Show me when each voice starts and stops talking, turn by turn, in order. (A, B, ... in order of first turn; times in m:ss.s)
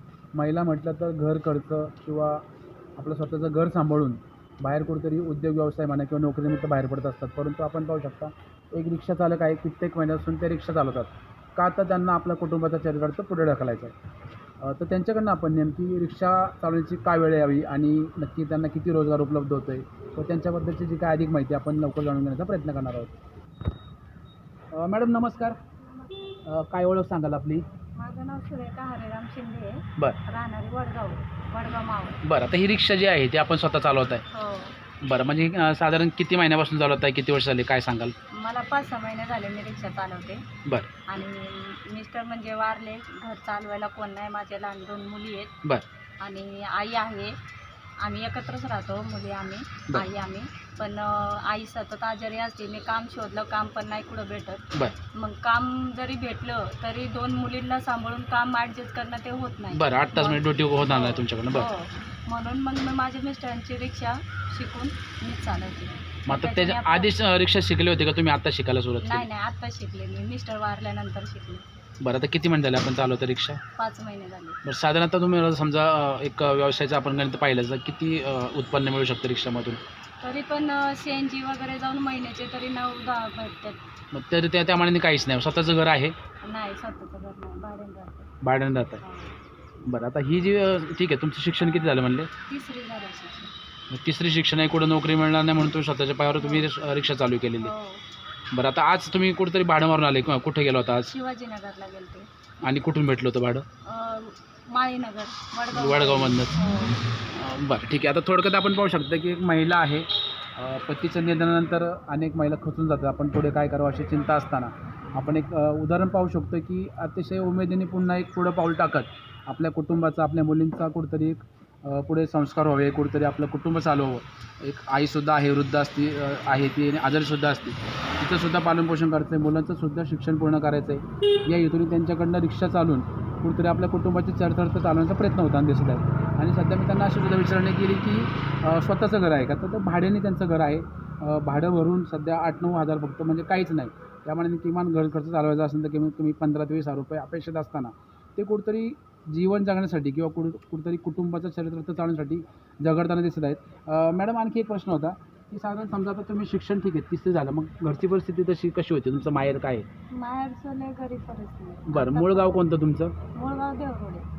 0:00.4-0:02.4 A
0:03.0-0:14.0 A
0:14.6-0:23.1 A
0:24.7-0:25.6 A
0:26.5-0:27.6 A
0:28.0-0:32.2 B
0:32.2-0:34.2 A
0:34.3-0:34.8 B
0:35.0-0:38.2 A
0:38.3-0:40.4 B
0:41.1-0:45.5 B
0:46.2-0:47.4 B
0:48.0-1:07.2 B
0:59.7-1:01.7 A
1:06.3-1:09.3 A
1:09.0-1:11.6 B
1:12.0-1:13.6 A
1:13.8-1:14.6 B
1:14.6-1:19.8 A
1:20.2-1:23.8 B
1:24.1-1:26.2 A
1:26.4-1:28.3 B
1:28.4-1:29.0 A
1:29.0-1:29.4 B
1:29.8-1:32.3 A
1:32.5-1:33.5 B
1:33.9-1:37.7 A
1:36.4-1:36.7 B
1:37.6-1:38.0 B
1:38.5-1:41.1 A
1:41.1-1:42.3 B
1:42.6-1:43.6 A
1:43.8-1:47.0 B
1:45.7-1:46.6 A
1:47.3-2:39.9 A
2:40.1-2:42.6 B
2:41.9-2:43.2 A
2:43.3-2:44.3 B